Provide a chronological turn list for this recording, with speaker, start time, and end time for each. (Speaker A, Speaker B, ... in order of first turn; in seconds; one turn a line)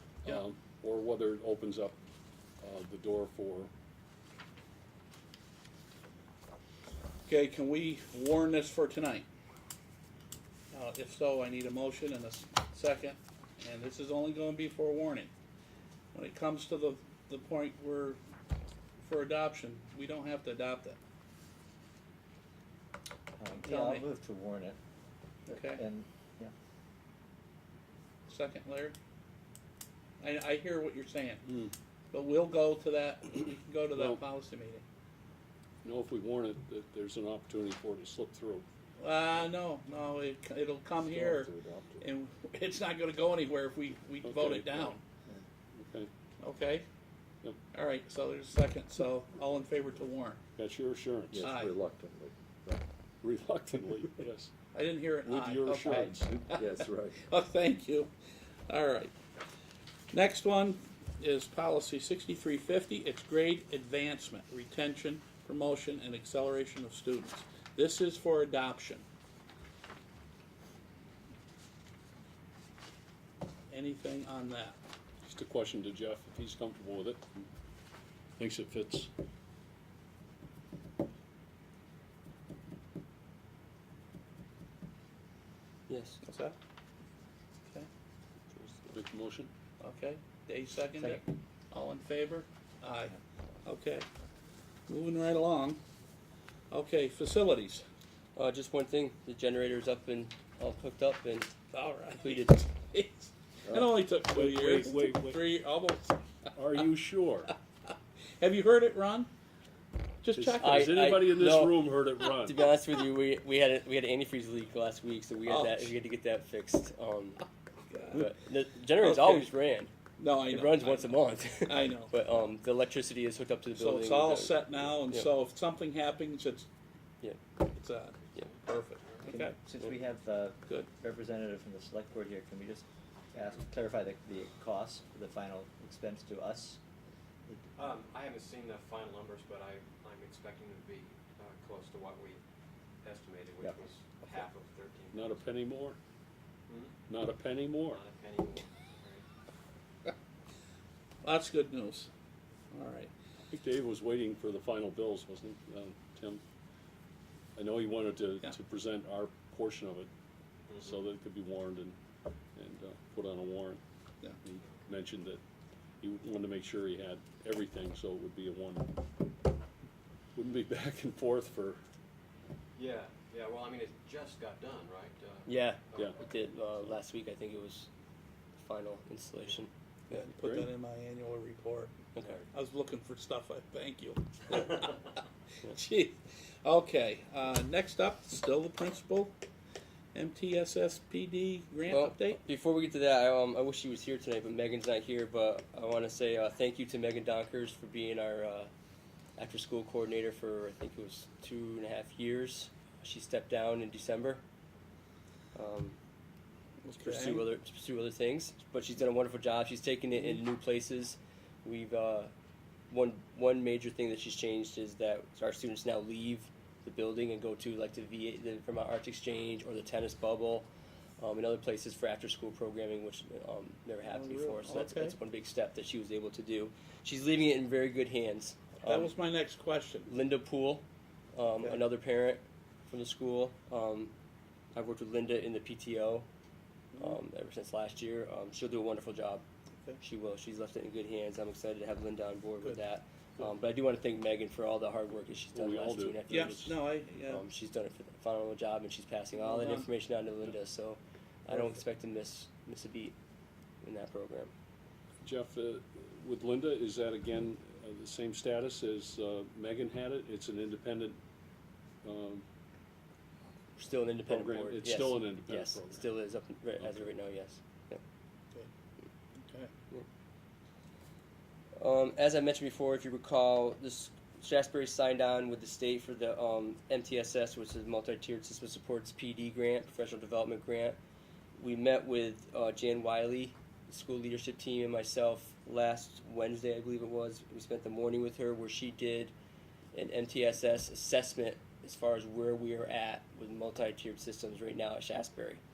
Speaker A: 0.2-2.0
Speaker A: 2.6-3.7
Speaker B: 7.3-9.2
Speaker B: 10.7-15.3
Speaker B: 16.1-18.2
Speaker B: 19.0-21.0
Speaker C: 23.4-24.8
Speaker B: 23.6-24.0
Speaker C: 25.4-26.5
Speaker B: 25.5-25.8
Speaker B: 28.3-28.9
Speaker B: 30.2-31.6
Speaker B: 32.1-34.8
Speaker A: 33.9-34.2
Speaker A: 35.8-38.6
Speaker B: 39.0-45.0
Speaker D: 41.0-42.0
Speaker A: 44.2-44.9
Speaker A: 45.7-46.1
Speaker B: 46.4-46.8
Speaker B: 47.7-50.4
Speaker A: 50.5-51.5
Speaker D: 51.3-52.8
Speaker B: 51.4-51.7
Speaker A: 53.2-54.5
Speaker B: 54.7-58.1
Speaker A: 55.2-56.3
Speaker D: 55.9-57.2
Speaker B: 58.7-59.1
Speaker B: 60.1-69.0
Speaker B: 73.7-74.8
Speaker A: 75.2-77.5
Speaker A: 78.4-79.1
Speaker E: 85.9-86.2
Speaker B: 86.2-86.5
Speaker A: 88.9-89.5
Speaker B: 89.8-94.0
Speaker B: 94.9-95.8
Speaker B: 96.7-97.8
Speaker E: 98.3-101.5
Speaker B: 101.7-106.2
Speaker E: 102.2-102.6
Speaker A: 103.7-105.5
Speaker A: 106.5-107.5
Speaker B: 108.4-109.3
Speaker B: 110.2-110.8
Speaker A: 110.3-112.7
Speaker E: 110.6-117.4
Speaker B: 115.5-115.9
Speaker B: 117.9-118.3
Speaker E: 118.1-119.9
Speaker B: 118.9-119.5
Speaker B: 120.2-122.2
Speaker E: 120.4-125.3
Speaker B: 123.7-126.7
Speaker B: 127.7-129.5
Speaker F: 128.3-129.2
Speaker E: 129.2-129.9
Speaker C: 129.2-136.8
Speaker F: 137.8-142.4
Speaker F: 143.0-145.4
Speaker A: 145.1-146.0
Speaker F: 146.7-146.9
Speaker A: 147.1-148.0
Speaker F: 147.9-149.2
Speaker B: 151.2-152.1
Speaker B: 152.7-153.1
Speaker A: 153.5-156.4
Speaker A: 157.6-160.1
Speaker A: 160.8-162.0
Speaker A: 162.5-163.8
Speaker A: 164.4-165.4
Speaker A: 166.0-169.0
Speaker A: 170.3-171.8
Speaker F: 172.8-176.4
Speaker E: 175.4-177.9
Speaker E: 178.6-180.2
Speaker B: 180.1-189.3
Speaker A: 180.4-180.7
Speaker E: 182.1-182.4
Speaker B: 190.1-192.4
Speaker E: 191.9-198.7
Speaker E: 199.4-204.4
Speaker E: 205.5-206.0
Speaker B: 206.8-207.5
Speaker E: 207.0-212.3
Speaker E: 212.9-229.1
Speaker B: 224.1-225.2
Speaker B: 228.8-230.1
Speaker E: 230.1-234.1
Speaker E: 234.7-236.3
Speaker B: 236.9-237.2
Speaker E: 237.0-239.4
Speaker E: 240.0-246.8
Speaker A: 245.5-246.7
Speaker B: 246.3-247.4
Speaker E: 247.3-253.1
Speaker B: 249.3-249.9
Speaker B: 251.5-251.8
Speaker E: 253.8-254.5
Speaker A: 255.2-261.2
Speaker A: 262.0-262.4
Speaker E: 263.8-268.0
Speaker A: 264.2-266.1
Speaker A: 266.8-267.1
Speaker B: 269.4-269.7
Speaker E: 271.8-281.0
Speaker E: 281.6-289.3
Speaker E: 289.9-295.6